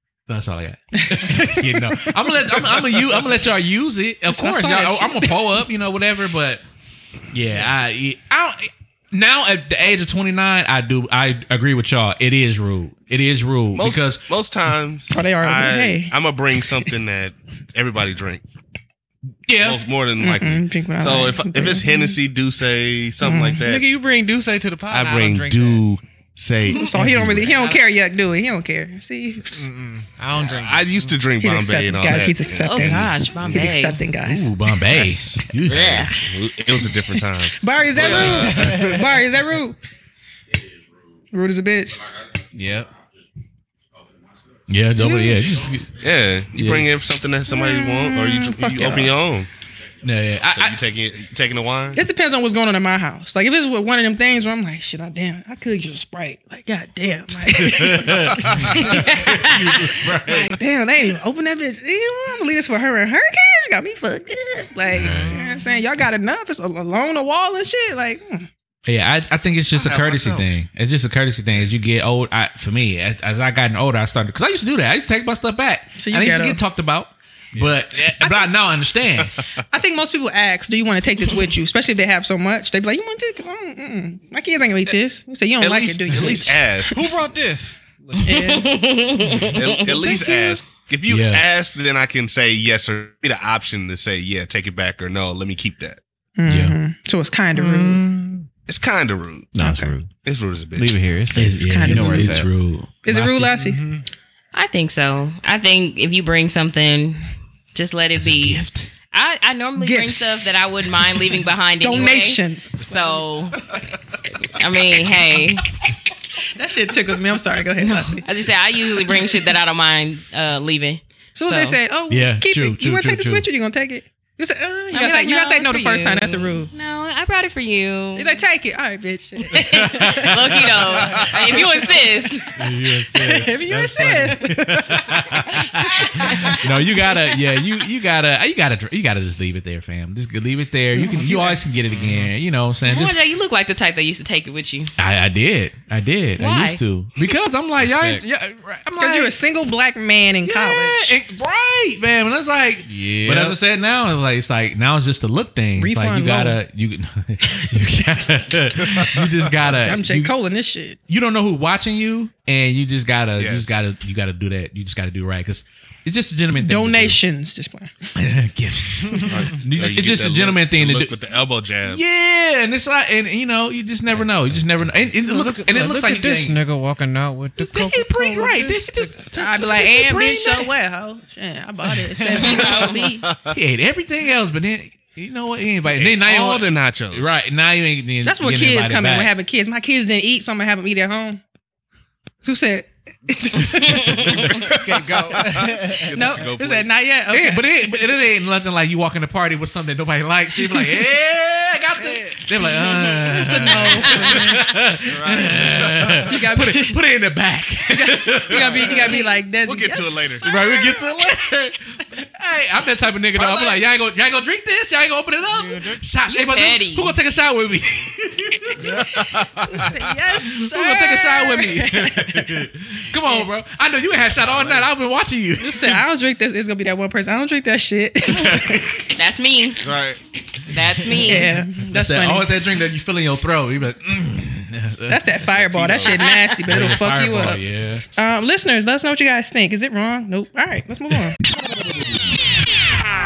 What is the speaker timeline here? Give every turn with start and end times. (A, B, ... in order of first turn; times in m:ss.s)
0:00.3-0:06.6 A
0:01.0-0:03.3 B
0:04.3-0:05.5 B
0:07.3-0:14.2 A
0:13.7-0:18.4 C
0:15.1-0:16.1 B
0:19.5-0:19.8 A
0:19.6-0:23.9 C
0:20.2-0:22.2 B
0:23.2-0:23.6 B
0:23.6-0:25.8 D
0:24.9-0:27.7 C
0:26.6-0:29.7 B
0:27.3-0:27.8 D
0:29.5-0:31.2 D
0:30.4-0:33.7 C
0:31.4-0:34.5 B
0:32.6-0:34.0 E
0:34.2-0:36.1 A
0:34.9-0:39.0 C
0:35.7-0:36.1 E
0:37.5-0:39.8 B
0:38.0-0:38.5 E
0:38.2-0:39.0 D
0:41.3-0:42.0 B
0:42.5-0:42.9 D
0:44.7-0:46.0 A
0:45.0-0:45.5 B
0:45.9-0:49.5 C
0:46.5-0:46.9 A
0:47.5-0:49.1 B
0:50.0-0:50.8 A
0:50.5-0:52.0 C
0:51.9-1:08.5 B
0:57.5-1:00.5 A
1:04.9-1:05.4 A
1:05.0-1:05.4 D
1:08.8-1:19.3 A
1:09.7-1:10.5 C
1:16.0-1:16.6 B
1:18.2-1:18.5 B
1:19.7-1:26.8 B
1:25.6-1:27.0 C
1:26.9-1:28.6 D
1:28.2-1:29.9 E
1:28.2-1:30.6 B
1:29.5-1:36.0 C
1:31.1-1:31.4 A
1:36.4-1:38.0 B
1:36.5-1:36.8 A
1:37.5-1:38.5 D
1:38.7-1:39.6 C
1:39.5-1:40.1 D
1:39.6-1:39.9 B
1:40.1-1:41.0 C
1:40.8-1:42.5 D
1:41.3-1:43.7 A
1:41.6-1:42.4 B
1:43.0-1:43.8 B
1:43.6-1:44.0 D
1:44.5-1:48.6 E
1:48.2-1:48.9 A
1:49.1-1:53.6 E
1:49.8-1:53.3 B
1:54.4-1:55.7 E
1:56.4-1:58.2 B
1:57.8-2:01.8 E
1:59.1-1:59.5 B
2:01.3-2:06.7 B
2:02.1-2:03.4 A
2:04.9-2:08.4 E
2:08.2-2:16.7 B
2:09.5-2:12.6 E
2:09.7-2:11.2 A
2:12.5-2:23.2 A
2:20.9-2:21.6 B
2:21.9-2:22.3 D
2:22.8-2:24.9 E
2:25.0-2:29.3 A
2:26.4-2:26.8 E
2:27.8-2:28.2 D
2:29.0-2:31.2 B
2:30.4-2:40.3 A
2:32.9-2:33.6 D
2:35.8-2:36.6 B
2:39.0-2:39.3 C
2:39.7-2:41.0 B
2:41.1-2:47.2 A
2:43.4-2:43.8 C
2:46.6-2:47.9 B
2:48.1-2:51.1 A
2:49.2-2:52.0 C
2:51.8-2:56.6 A
2:55.2-2:59.2 D
2:57.6-3:00.6 A
2:59.3-3:03.2 B
3:02.4-3:03.0 E
3:03.2-3:03.6 C
3:03.5-3:09.3 A
3:05.9-3:07.3 C
3:08.2-3:11.4 B
3:12.4-3:14.7 B
3:14.1-3:16.4 D
3:14.4-3:16.9 C
3:16.1-3:17.7 B
3:17.3-3:29.1 A
3:22.7-3:24.8 B
3:25.0-3:26.2 C
3:25.4-3:27.0 B
3:27.9-3:31.1 B
3:28.6-3:30.5 C
3:30.4-3:39.0 A
3:33.4-3:33.8 C
3:35.5-3:36.0 D
3:36.3-3:37.1 E
3:38.9-3:39.9 C
3:39.7-3:42.6 B
3:40.4-3:46.0 A
3:43.2-3:43.5 B
3:44.1-3:44.9 C
3:45.6-3:49.1 B
3:48.3-3:48.9 A
3:49.1-3:49.8 E
3:49.8-3:50.2 C
3:50.7-3:51.5 E
3:51.1-3:52.5 B
3:51.8-3:55.3 A
3:55.1-3:57.6 B
3:55.5-3:56.3 C
3:56.0-3:56.4 E
3:56.7-3:58.1 A
3:58.1-4:01.4 B